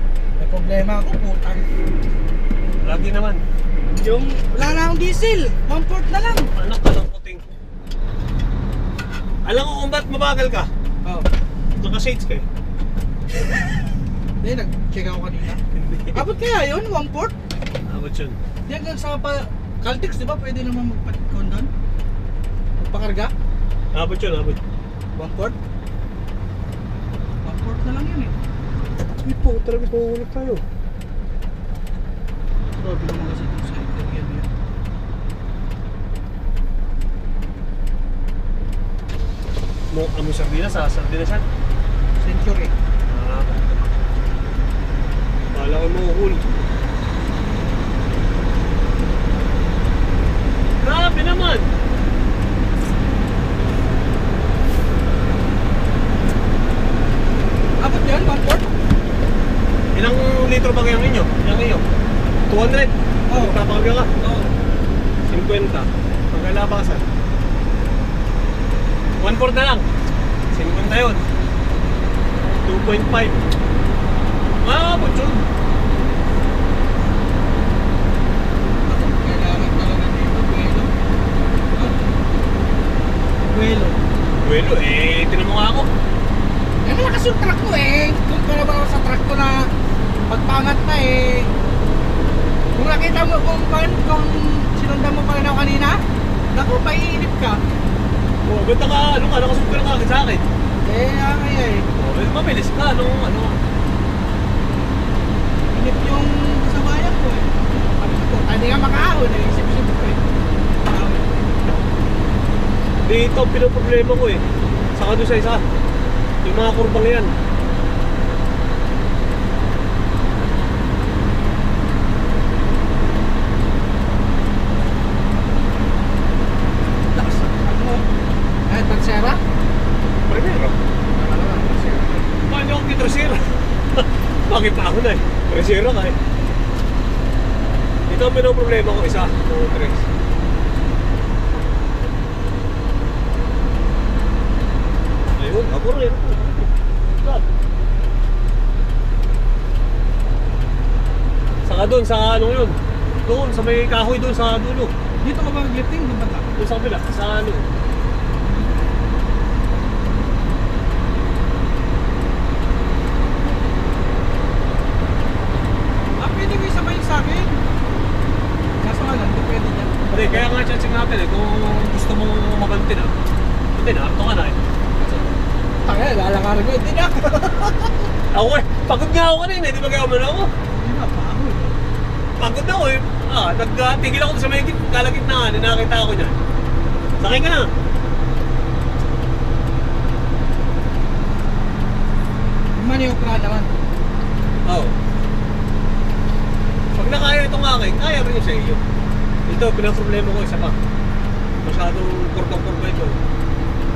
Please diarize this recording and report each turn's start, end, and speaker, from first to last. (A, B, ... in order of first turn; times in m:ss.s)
0:00.4-0:01.7 A
0:02.8-0:03.4 B
0:03.9-0:06.5 A
0:06.6-0:07.4 B
0:09.4-0:10.7 B
0:11.8-0:12.4 B
0:14.4-0:15.6 A
0:15.8-0:16.2 B
0:16.1-0:17.4 A
0:17.9-0:18.4 B
0:18.7-0:21.7 A
0:22.8-0:23.3 A
0:23.9-0:24.6 B
0:25.2-0:25.6 A
0:27.4-0:28.4 A
0:29.2-0:30.6 B
0:32.7-0:34.5 A
0:39.9-0:41.5 B
0:42.2-0:42.7 A
0:43.1-0:43.8 B
0:45.5-0:46.5 B
0:50.8-0:51.7 B
0:57.8-0:58.8 A
0:59.9-1:01.8 B
1:02.5-1:04.1 B
1:03.3-1:03.6 A
1:04.2-1:04.5 A
1:05.3-1:07.1 B
1:09.2-1:09.9 B
1:10.5-1:11.2 B
1:12.4-1:13.4 B
1:14.6-1:15.5 B
1:18.9-1:20.9 A
1:21.7-1:22.2 A
1:23.5-1:24.0 A
1:24.4-1:25.9 B
1:26.8-1:29.7 A
1:30.3-1:31.5 A
1:32.8-1:37.6 A
1:38.4-1:40.5 B
1:40.8-1:41.9 A
1:41.9-1:43.6 B
1:45.7-1:50.2 A
1:50.8-1:51.6 A
1:53.0-1:54.4 B
1:55.0-1:55.6 B
1:56.4-1:57.3 B
2:07.2-2:08.1 A
2:08.7-2:09.4 A
2:10.3-2:10.8 B
2:11.2-2:12.2 A
2:12.4-2:16.2 B
2:18.1-2:20.1 B
2:25.4-2:26.7 B
2:27.2-2:27.5 B
2:31.6-2:34.9 B
2:35.2-2:36.5 A
2:36.6-2:37.7 B
2:46.2-2:47.6 A
2:48.8-2:50.5 A
2:50.1-2:53.2 B
2:53.8-2:54.6 B
2:55.8-2:58.1 A
2:58.3-3:00.5 B
3:00.7-3:01.8 A
3:02.4-3:06.4 B
3:07.2-3:07.7 B
3:12.8-3:13.8 A
3:14.6-3:15.0 B
3:16.9-3:18.8 B
3:19.5-3:20.8 B
3:21.6-3:23.2 B